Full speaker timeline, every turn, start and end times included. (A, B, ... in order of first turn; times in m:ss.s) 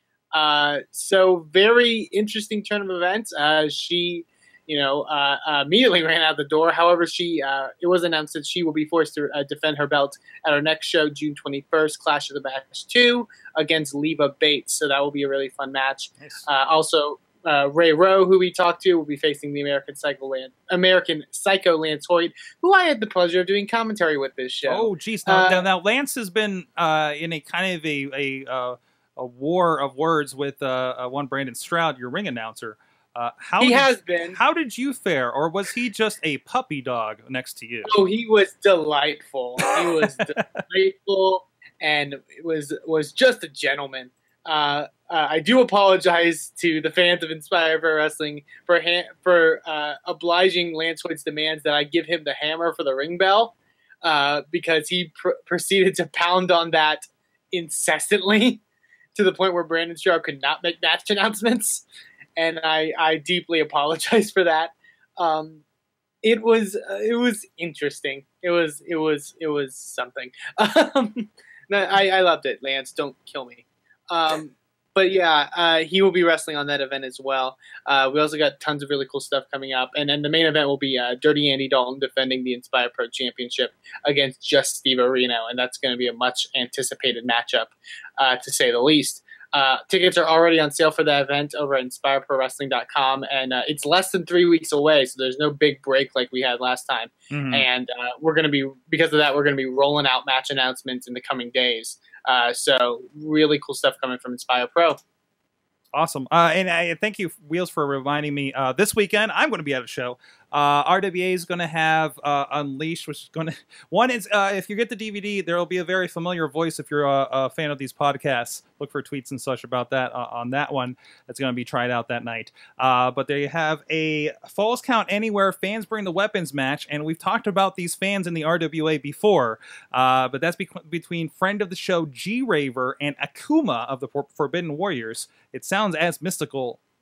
0:00.3-0:25.6 A
0:16.2-0:16.4 B
0:24.6-0:38.0 B
0:33.6-0:34.4 A
0:37.9-0:58.6 A
0:39.6-0:40.6 B
0:59.1-1:01.8 A
1:02.4-1:05.6 A
1:06.2-1:45.0 A
1:37.3-1:37.6 B
1:45.9-2:16.8 B